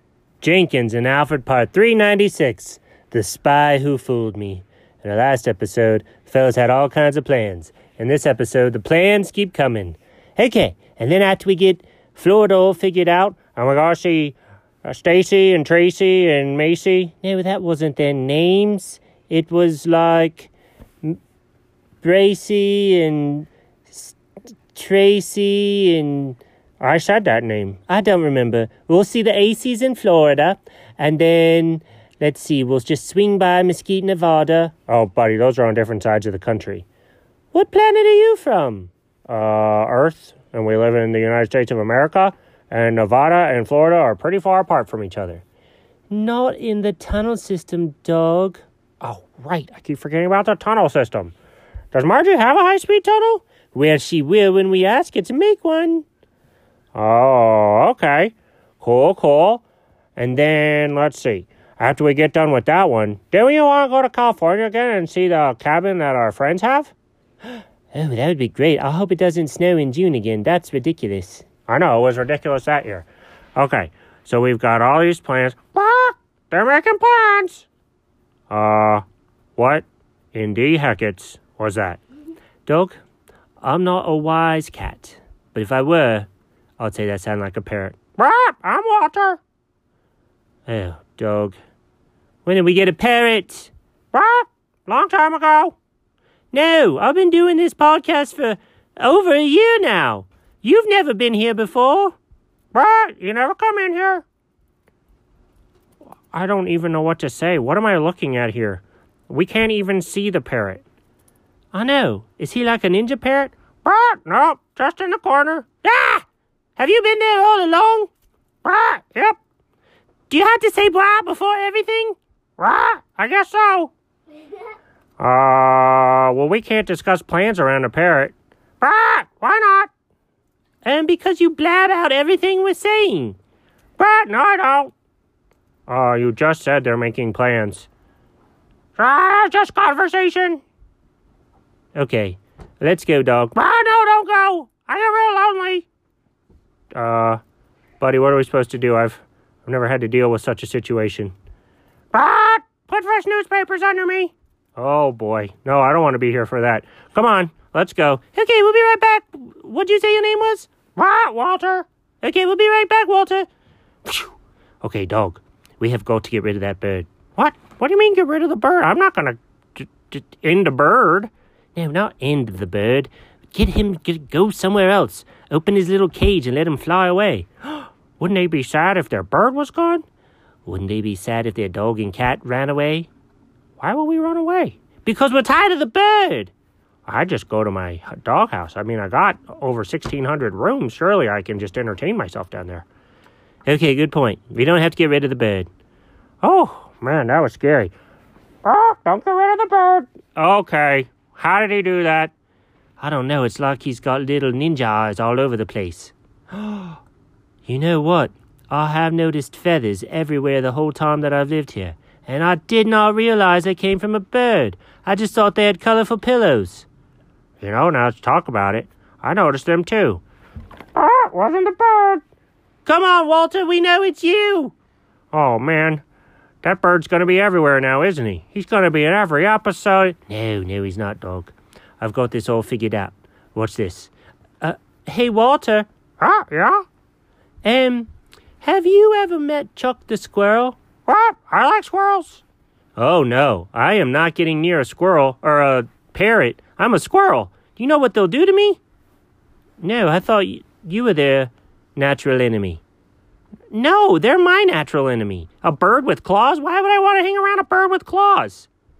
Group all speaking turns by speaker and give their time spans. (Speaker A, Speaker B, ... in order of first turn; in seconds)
Speaker A: 0.4-20.5, 22.0-24.2, 24.7-36.9, 37.5-45.4, 46.1-51.3, 51.9-56.0, 56.9-59.6, 60.1-66.9, 67.9-77.7, 78.5-79.0, 79.5-82.0, 82.7-83.0, 83.6-86.3, 86.8-89.4, 90.7-91.6, 92.4-95.8, 96.5-102.2, 102.7-104.2, 106.3-110.8, 111.7-116.2, 116.8-118.1, 118.6-119.4, 120.3-123.9, 125.2-129.9, 130.8-133.4, 134.0-134.9, 135.9-137.9, 138.9-140.6, 141.9-145.9, 146.9-147.4, 148.0-151.3, 152.1-163.5, 164.0-180.0, 180.7-183.1, 183.8-186.5, 187.1-192.9, 193.7-195.7, 196.4-197.9, 198.6-202.3, 203.0-207.0, 207.6-216.9, 217.6-220.2, 220.9-222.2, 222.8-224.7, 225.3-226.0, 226.6-236.8, 237.6-238.1, 238.6-242.4, 243.0-248.8, 249.8-252.8, 253.7-258.7